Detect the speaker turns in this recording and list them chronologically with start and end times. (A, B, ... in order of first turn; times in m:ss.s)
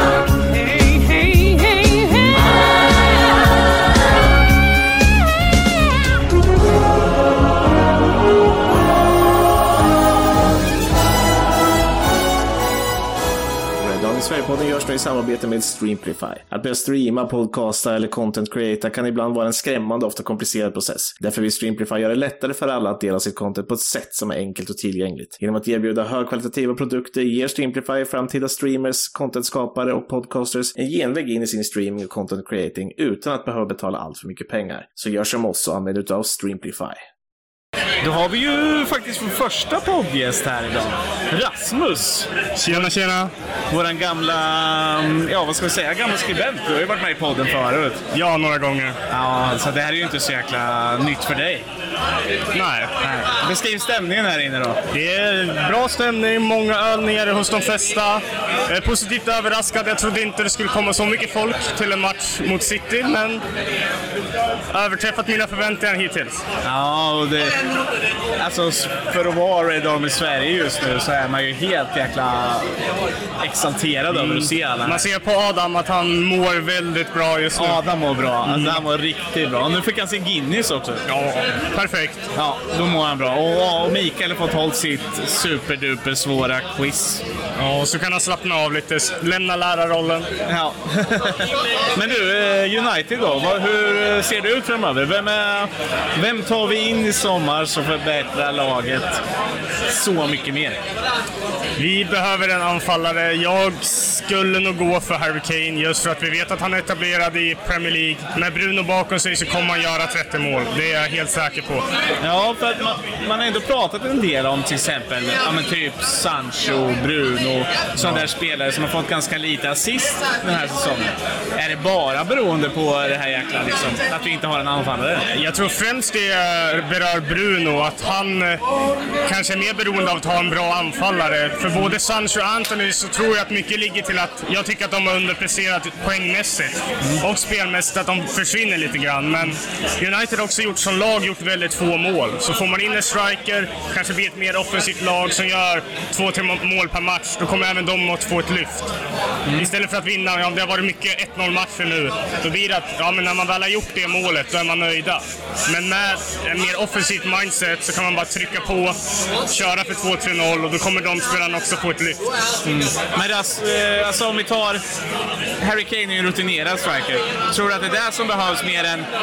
0:13.8-0:37.0 A
0:38.0-0:42.9 B
0:42.6-0:43.3 C
0:43.7-0:48.0 B
0:48.1-0:49.0 C
0:49.1-0:51.6 B
0:52.5-0:53.0 C
0:53.0-0:54.8 B
0:54.9-1:03.4 C
1:04.7-1:06.4 C
1:06.6-1:07.6 B
1:08.4-1:12.7 B
1:13.4-1:15.1 B
1:14.1-1:17.8 C
1:17.6-1:21.0 B
1:18.5-1:18.8 C
1:21.1-1:22.2 C
1:22.3-1:27.2 B
1:27.6-1:30.3 C
1:30.5-1:39.2 B
1:39.9-1:40.8 B
1:41.8-1:51.8 C
1:52.2-2:05.2 B
2:05.3-2:08.6 C
2:09.2-2:28.9 C
2:29.5-2:39.0 C
2:39.5-2:42.2 C
2:42.6-2:44.8 B
2:45.6-2:49.1 B